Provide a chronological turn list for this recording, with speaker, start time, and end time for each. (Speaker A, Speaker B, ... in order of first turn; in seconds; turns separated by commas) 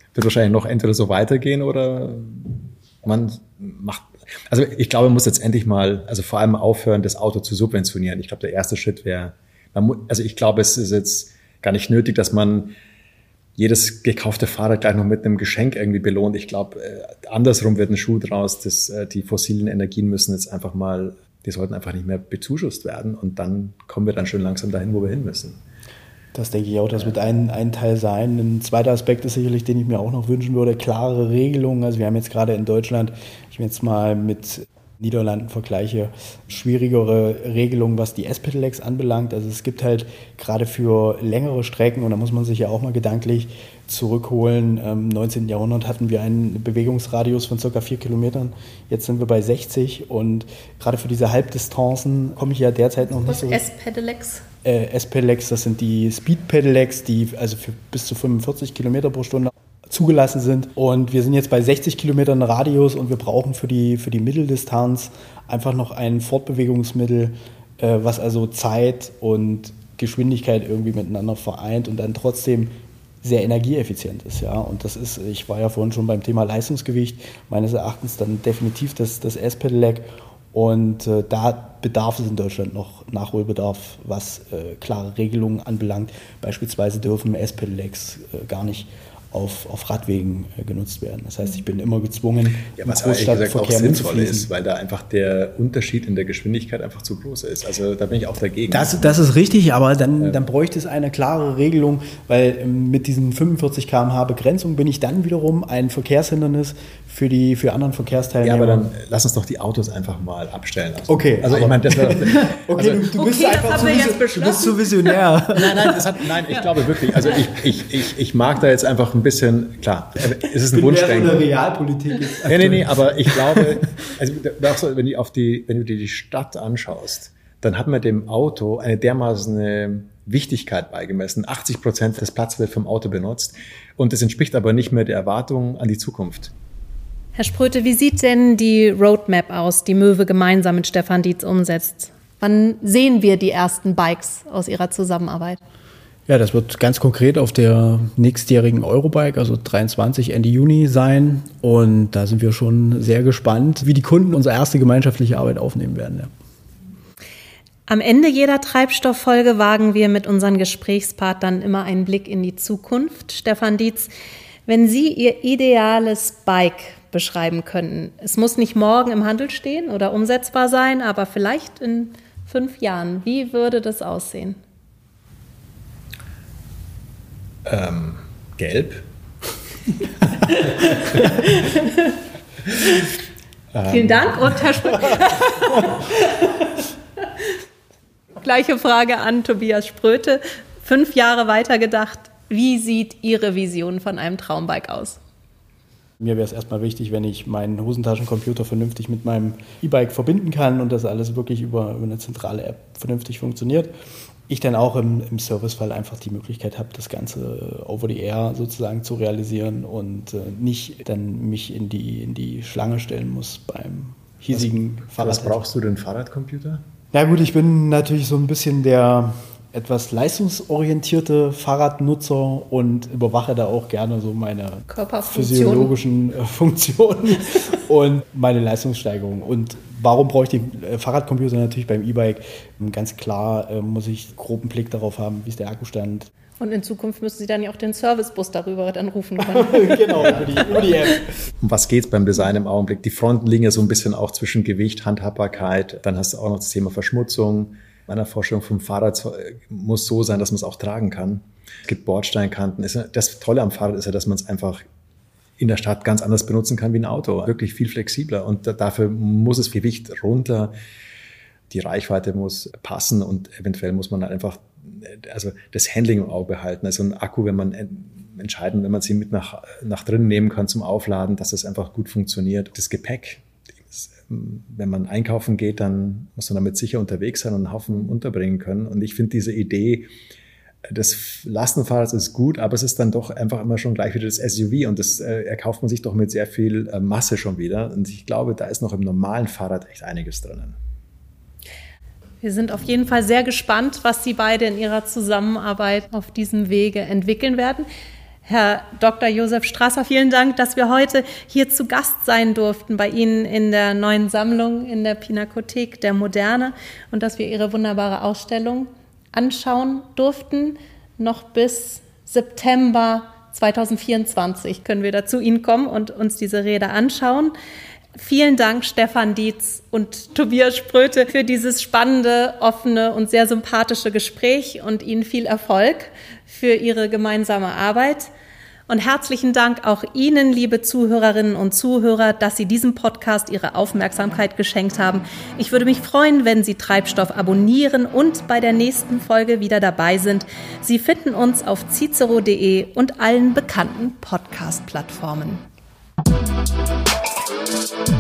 Speaker A: 0.1-12.8, Speaker A: 13.6-25.6, Speaker B: 26.3-53.6, Speaker C: 53.3-54.5, Speaker B: 54.6-94.5, Speaker A: 92.7-99.2, Speaker B: 98.7-108.9, Speaker A: 108.4-113.1, Speaker B: 111.1-116.3, Speaker C: 113.1-115.1, Speaker A: 115.5-121.5, Speaker B: 117.0-117.4, Speaker B: 120.7-123.8, Speaker A: 122.5-136.5, Speaker C: 137.4-145.6, Speaker B: 146.3-156.3, Speaker C: 157.9-164.1, Speaker C: 164.7-174.6, Speaker A: 177.7-179.1, Speaker C: 180.6-182.2, Speaker A: 183.7-184.6, Speaker C: 183.9-186.6, Speaker C: 188.4-195.2, Speaker B: 196.2-203.9, Speaker B: 204.5-215.6, Speaker A: 214.5-216.8, Speaker B: 217.1-236.3, Speaker C: 224.9-225.9, Speaker C: 236.6-240.3, Speaker B: 239.4-241.3, Speaker A: 241.6-254.8, Speaker A: 255.6-260.8, Speaker A: 261.7-280.1, Speaker A: 280.9-290.8, Speaker C: 292.4-297.9, Speaker C: 298.5-317.5, Speaker C: 318.2-328.3, Speaker C: 328.9-345.6